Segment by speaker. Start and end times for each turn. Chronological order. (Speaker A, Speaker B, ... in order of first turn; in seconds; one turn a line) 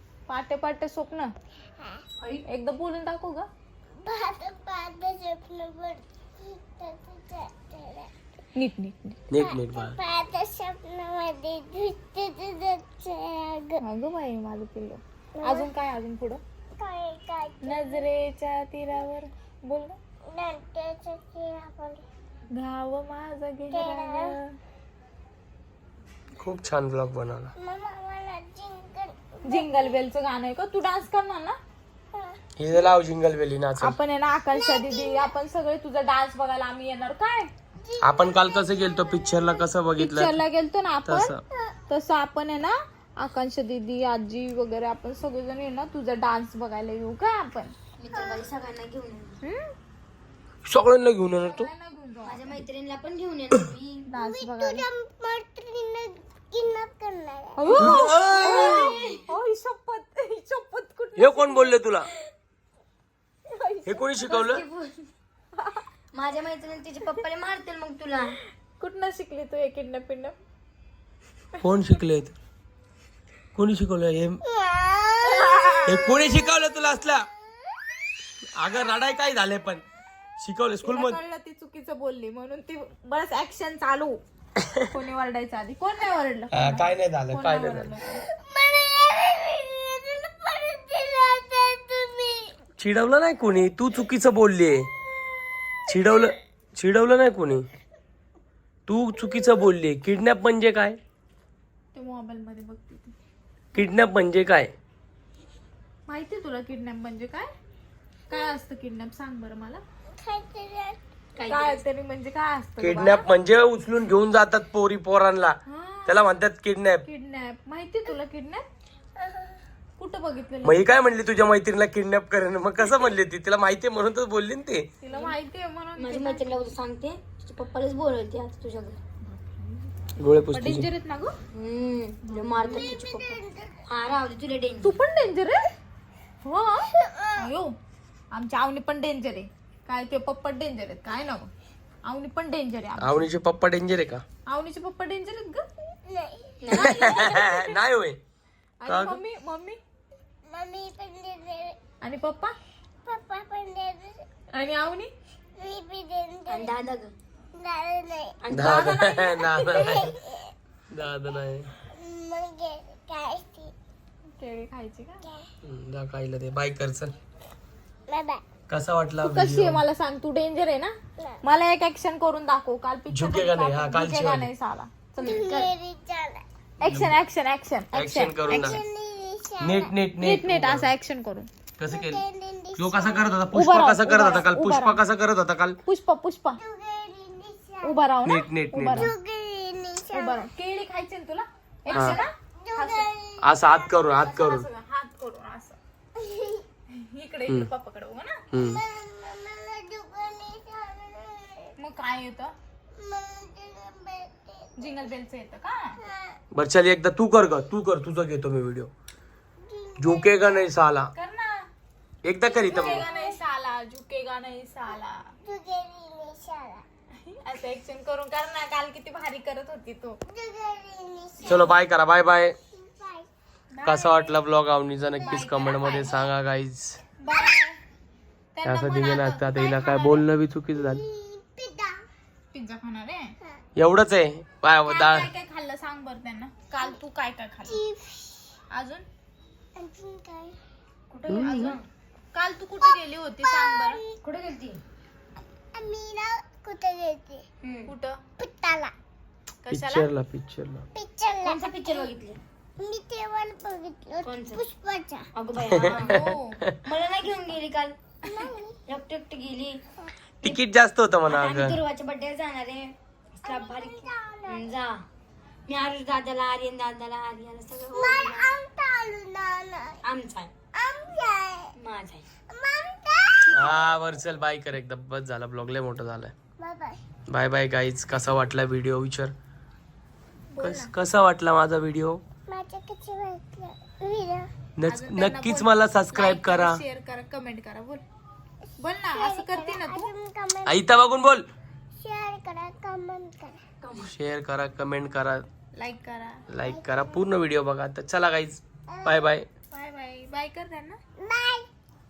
Speaker A: 0.3-1.3
Speaker A: 2.5-3.5
Speaker B: 4.0-8.1
Speaker A: 8.6-9.2
Speaker C: 9.3-10.0
Speaker B: 9.3-13.8
Speaker A: 13.8-16.4
Speaker B: 15.4-15.7
Speaker B: 16.8-18.1
Speaker A: 17.6-20.0
Speaker B: 20.3-22.0
Speaker A: 22.5-24.5
Speaker B: 23.7-24.4
Speaker C: 26.4-27.5
Speaker B: 27.6-30.0
Speaker A: 29.5-31.6
Speaker B: 32.1-32.9
Speaker C: 32.6-34.0
Speaker A: 33.8-37.5
Speaker B: 34.5-35.4
Speaker B: 37.8-39.7
Speaker C: 38.0-40.4
Speaker A: 40.0-41.3
Speaker C: 41.1-41.4
Speaker A: 41.9-47.7
Speaker D: 48.0-49.4
Speaker B: 48.1-48.4
Speaker A: 49.4-49.7
Speaker C: 50.6-51.7
Speaker A: 51.4-52.6
Speaker D: 52.2-54.1
Speaker A: 54.1-54.9
Speaker B: 54.1-58.1
Speaker A: 57.6-61.8
Speaker C: 57.8-59.0
Speaker D: 58.1-59.2
Speaker C: 61.2-62.1
Speaker A: 63.5-64.1
Speaker C: 63.9-64.6
Speaker D: 64.2-65.1
Speaker A: 65.6-65.8
Speaker D: 66.1-68.4
Speaker A: 68.8-70.3
Speaker C: 71.6-72.3
Speaker C: 73.5-74.4
Speaker B: 74.5-76.3
Speaker A: 75.3-76.0
Speaker C: 75.9-77.3
Speaker C: 78.5-79.8
Speaker C: 80.4-81.2
Speaker A: 80.8-84.2
Speaker A: 84.9-88.2
Speaker C: 86.5-88.0
Speaker B: 88.2-92.5
Speaker C: 92.8-94.9
Speaker C: 95.9-97.7
Speaker C: 98.9-101.0
Speaker A: 101.9-103.1
Speaker C: 103.8-104.7
Speaker A: 106.1-107.5
Speaker A: 108.3-109.8
Speaker B: 110.1-111.0
Speaker D: 111.4-111.8
Speaker A: 111.5-113.3
Speaker C: 112.8-117.1
Speaker A: 115.7-116.3
Speaker A: 117.0-118.6
Speaker B: 119.2-119.6
Speaker A: 120.0-120.9
Speaker C: 120.6-124.9
Speaker A: 125.0-126.5
Speaker D: 125.1-125.4
Speaker D: 126.0-129.0
Speaker A: 129.2-131.3
Speaker C: 130.2-130.9
Speaker D: 131.5-135.0
Speaker B: 132.3-133.9
Speaker A: 134.8-135.6
Speaker A: 136.4-137.7
Speaker B: 137.0-137.5
Speaker A: 138.3-141.5
Speaker A: 142.1-143.3
Speaker C: 143.0-144.2
Speaker A: 144.5-145.6
Speaker B: 146.1-147.7
Speaker D: 146.6-147.3
Speaker C: 146.8-148.2
Speaker A: 146.8-147.5
Speaker A: 148.8-149.8
Speaker C: 148.9-149.2
Speaker B: 150.5-151.8
Speaker A: 152.0-152.6
Speaker B: 153.1-154.2
Speaker A: 154.5-155.1
Speaker B: 155.6-156.8
Speaker D: 156.5-157.1
Speaker B: 157.5-158.4
Speaker D: 158.4-159.0
Speaker C: 158.5-160.2
Speaker A: 158.6-160.1
Speaker B: 159.4-160.5
Speaker C: 160.9-161.7
Speaker B: 161.9-163.7
Speaker A: 164.4-165.2
Speaker C: 165.6-167.2
Speaker B: 168.1-168.4
Speaker C: 168.7-169.8
Speaker A: 169.2-175.4
Speaker C: 173.1-174.5
Speaker D: 175.2-175.7
Speaker B: 175.2-176.4
Speaker A: 176.8-178.8
Speaker C: 176.8-177.2
Speaker C: 177.9-178.8
Speaker B: 178.5-179.9
Speaker C: 179.6-180.9
Speaker A: 180.2-181.5
Speaker C: 181.8-182.2
Speaker B: 181.9-183.3
Speaker C: 182.8-185.8
Speaker A: 183.5-185.0
Speaker A: 185.8-186.6
Speaker B: 186.6-188.0
Speaker A: 187.8-189.1
Speaker C: 188.2-189.1
Speaker B: 188.9-190.5
Speaker A: 190.1-193.1
Speaker C: 191.9-192.2
Speaker B: 191.9-194.1
Speaker C: 193.4-194.7
Speaker A: 194.1-195.8
Speaker B: 196.2-196.6
Speaker A: 196.9-198.4
Speaker C: 198.5-198.8
Speaker B: 198.6-201.7
Speaker A: 201.8-202.5
Speaker B: 202.9-205.0
Speaker A: 204.8-206.0
Speaker B: 206.0-206.4
Speaker C: 206.5-208.9
Speaker B: 209.6-210.7
Speaker C: 210.0-211.1
Speaker A: 211.1-211.6
Speaker C: 212.2-213.1
Speaker B: 212.4-213.4
Speaker A: 212.7-215.2
Speaker B: 215.4-216.8
Speaker A: 217.3-220.2
Speaker B: 220.3-221.8
Speaker C: 221.4-222.6
Speaker B: 222.7-223.3
Speaker A: 223.7-224.3
Speaker C: 223.8-227.0
Speaker A: 225.2-226.2
Speaker A: 227.2-227.8
Speaker A: 228.6-230.2
Speaker C: 228.6-231.0
Speaker B: 230.8-232.0
Speaker A: 232.5-233.3
Speaker C: 233.8-235.3
Speaker A: 234.8-237.8
Speaker B: 237.7-238.6
Speaker A: 238.7-239.1
Speaker B: 239.8-240.6
Speaker D: 241.1-241.9
Speaker C: 241.3-241.7
Speaker A: 241.4-241.8
Speaker A: 242.3-244.0
Speaker B: 242.8-244.2
Speaker D: 244.2-244.8
Speaker B: 245.7-247.4
Speaker D: 247.6-247.9
Speaker A: 247.9-248.2
Speaker B: 248.4-248.9
Speaker A: 249.6-250.1
Speaker C: 249.7-250.9
Speaker B: 250.9-252.1
Speaker D: 251.4-252.4
Speaker B: 252.8-255.3
Speaker D: 254.2-254.6
Speaker D: 255.3-256.3
Speaker C: 255.9-256.8
Speaker A: 256.1-256.6
Speaker D: 256.9-257.9
Speaker B: 258.3-258.8
Speaker D: 258.9-259.8
Speaker C: 260.4-261.8
Speaker D: 261.3-265.1
Speaker B: 263.4-264.7
Speaker D: 265.7-268.5
Speaker B: 267.9-270.0
Speaker D: 270.0-270.5
Speaker B: 270.7-271.7
Speaker D: 271.8-272.3
Speaker B: 272.5-273.8
Speaker C: 273.5-276.3
Speaker B: 276.6-277.0
Speaker C: 277.3-279.3
Speaker A: 280.5-280.9
Speaker C: 280.6-282.2
Speaker B: 282.5-284.5
Speaker C: 284.8-286.8
Speaker A: 284.9-288.0
Speaker A: 288.8-290.1
Speaker B: 289.1-290.8
Speaker C: 290.6-291.4
Speaker B: 291.9-293.6
Speaker D: 293.8-294.1
Speaker C: 294.1-295.4
Speaker A: 295.8-296.4
Speaker C: 296.5-299.5
Speaker B: 296.6-297.2
Speaker B: 298.9-299.3
Speaker A: 299.7-301.0
Speaker B: 301.2-301.7